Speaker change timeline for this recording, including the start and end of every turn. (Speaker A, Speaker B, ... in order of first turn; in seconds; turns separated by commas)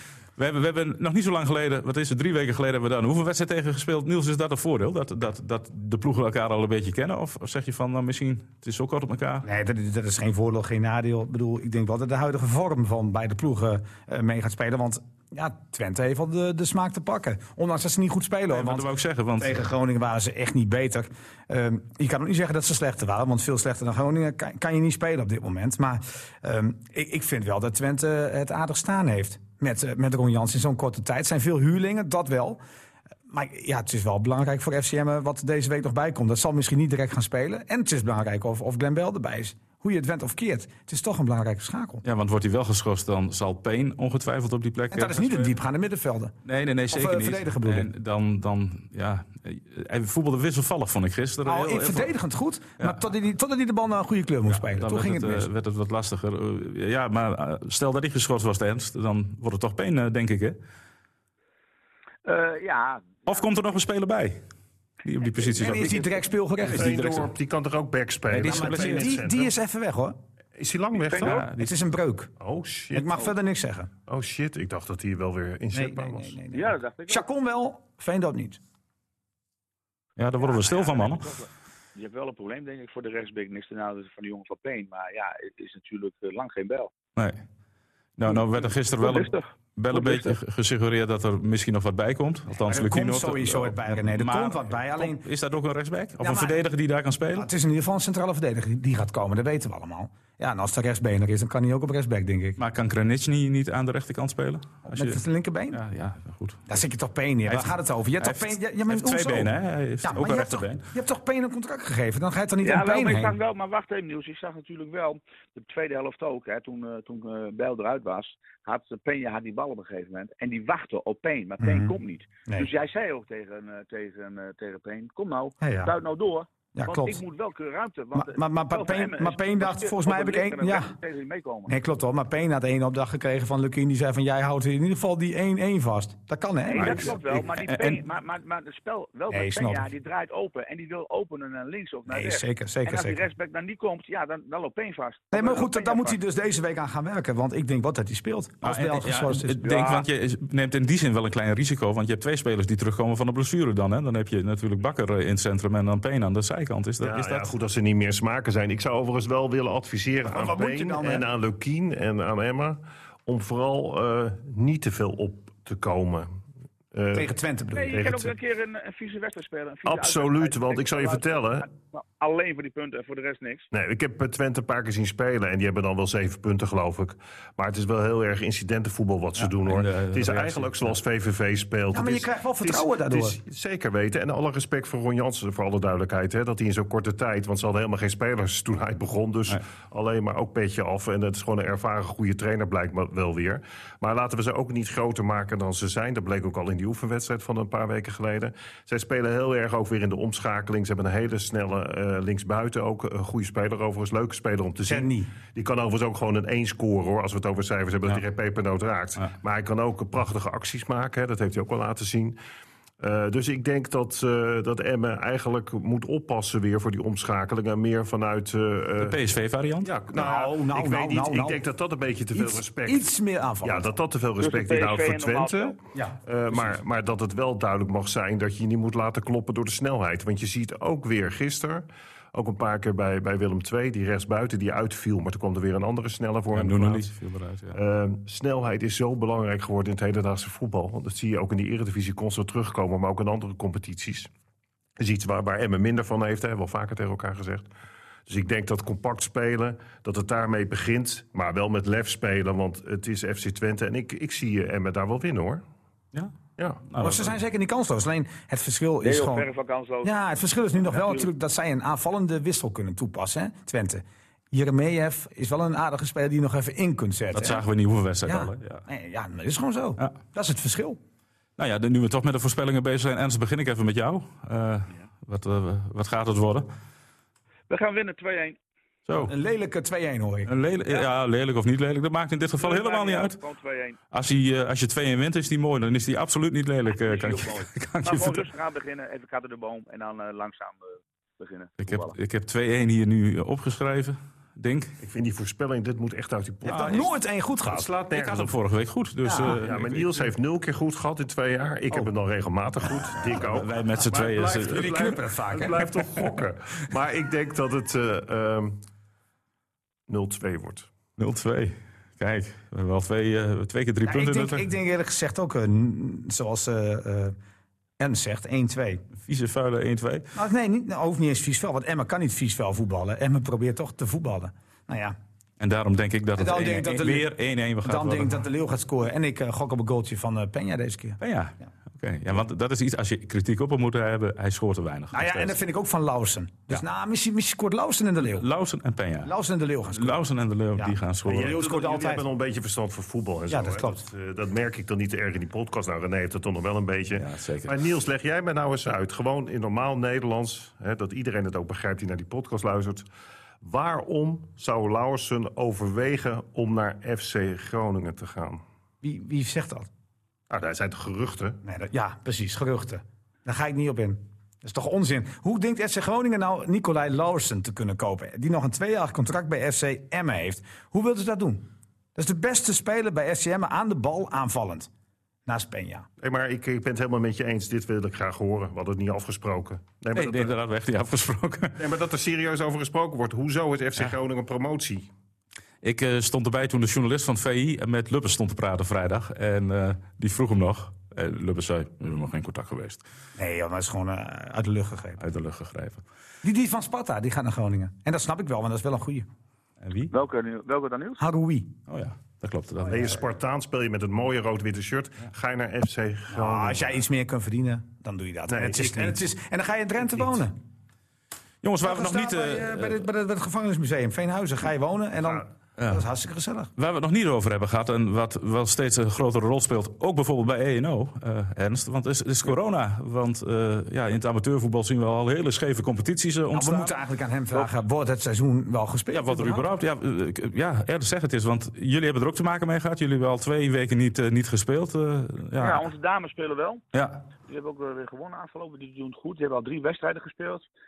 Speaker A: 0.4-9.5, Speaker B: 9.4-18.9, Speaker A: 18.5-19.7, Speaker B: 19.4-32.6, Speaker B: 33.3-42.0, Speaker A: 42.0-45.5, Speaker B: 44.9-46.4, Speaker A: 46.5-52.1, Speaker B: 46.9-47.9, Speaker B: 51.5-55.5, Speaker A: 54.5-60.6, Speaker C: 62.2-63.5, Speaker A: 63.3-64.4, Speaker A: 65.0-67.3, Speaker C: 65.3-66.0, Speaker B: 65.5-67.0, Speaker D: 66.7-69.5, Speaker A: 68.3-69.2, Speaker B: 68.4-70.2, Speaker D: 70.6-71.5, Speaker C: 71.0-71.5, Speaker A: 71.2-71.7, Speaker B: 71.5-72.3, Speaker D: 72.4-73.2, Speaker B: 72.9-73.9, Speaker D: 74.1-76.4, Speaker B: 75.7-78.6, Speaker C: 76.5-77.3, Speaker A: 80.2-81.3, Speaker C: 80.4-86.9, Speaker A: 87.2-87.4, Speaker A: 88.2-97.5, Speaker C: 88.3-90.4, Speaker B: 92.6-95.2, Speaker B: 96.2-96.6, Speaker B: 97.3-102.6, Speaker A: 102.6-106.8, Speaker B: 104.9-105.8, Speaker B: 106.7-113.4, Speaker A: 107.5-110.8, Speaker C: 112.6-131.8, Speaker B: 121.6-122.0, Speaker B: 125.6-125.9, Speaker B: 126.8-127.2, Speaker B: 128.1-130.9, Speaker B: 131.7-137.2, Speaker C: 136.7-146.2, Speaker D: 136.8-137.2, Speaker A: 137.6-138.0, Speaker B: 139.3-139.9, Speaker B: 142.1-143.2, Speaker B: 145.3-149.6, Speaker A: 148.6-157.5, Speaker C: 149.6-150.1, Speaker D: 157.0-166.3, Speaker B: 160.2-161.3, Speaker D: 166.9-167.3, Speaker B: 167.1-168.1, Speaker C: 167.7-173.7, Speaker D: 167.9-168.3, Speaker D: 169.9-171.7, Speaker D: 173.7-212.4, Speaker A: 179.4-181.0, Speaker B: 181.9-183.4, Speaker B: 204.9-205.3, Speaker D: 213.0-219.2, Speaker A: 219.0-219.9, Speaker D: 219.8-223.1, Speaker B: 220.1-221.6, Speaker B: 222.3-223.9, Speaker D: 223.6-237.1, Speaker C: 224.4-225.8, Speaker A: 236.5-237.8, Speaker D: 237.7-244.3, Speaker D: 245.0-247.7, Speaker D: 248.3-255.6, Speaker D: 256.6-256.8, Speaker A: 256.9-257.4, Speaker B: 257.0-259.5, Speaker C: 259.0-260.1, Speaker B: 260.0-267.6, Speaker C: 260.8-261.3, Speaker A: 267.3-268.8, Speaker B: 268.2-271.0, Speaker A: 271.6-276.7, Speaker C: 277.7-278.6, Speaker A: 279.1-279.3, Speaker B: 279.2-280.5, Speaker A: 280.5-283.4, Speaker C: 282.6-284.0, Speaker A: 284.1-288.5, Speaker C: 286.9-292.2, Speaker A: 291.8-294.9, Speaker D: 295.0-297.1, Speaker B: 296.6-297.9, Speaker A: 296.6-297.1, Speaker D: 297.7-298.5, Speaker A: 298.1-300.3, Speaker B: 299.2-299.6, Speaker D: 299.4-308.8, Speaker A: 303.3-305.1, Speaker B: 304.6-305.9, Speaker D: 310.1-310.9, Speaker A: 311.2-314.7, Speaker B: 314.1-317.4, Speaker B: 318.0-319.1, Speaker A: 319.2-320.3, Speaker B: 320.3-325.2, Speaker A: 325.6-328.4, Speaker B: 326.4-327.3, Speaker B: 327.8-331.2, Speaker A: 331.2-335.6, Speaker B: 335.1-338.5, Speaker A: 338.2-339.3, Speaker B: 339.2-340.2, Speaker A: 339.9-341.6, Speaker B: 340.8-342.2, Speaker D: 341.3-353.1, Speaker B: 343.5-344.0, Speaker A: 347.2-347.8, Speaker D: 353.6-358.6, Speaker B: 359.0-359.9, Speaker D: 360.5-361.6, Speaker B: 361.6-374.9, Speaker B: 375.5-376.1, Speaker D: 376.2-380.5, Speaker A: 380.1-381.8, Speaker D: 381.8-385.1, Speaker A: 385.8-393.0, Speaker B: 393.4-395.2, Speaker A: 395.2-396.0, Speaker B: 396.4-399.3, Speaker A: 399.8-400.1, Speaker C: 400.1-401.2, Speaker B: 401.2-401.7, Speaker A: 401.9-403.2, Speaker D: 402.9-407.0, Speaker B: 406.3-410.6, Speaker D: 408.5-409.2, Speaker A: 411.6-413.1, Speaker B: 411.8-416.7, Speaker D: 415.2-415.5, Speaker A: 415.8-416.1, Speaker A: 416.8-426.9, Speaker B: 426.5-429.7, Speaker A: 429.1-435.9, Speaker C: 435.6-436.8, Speaker A: 436.9-437.2, Speaker C: 437.4-440.7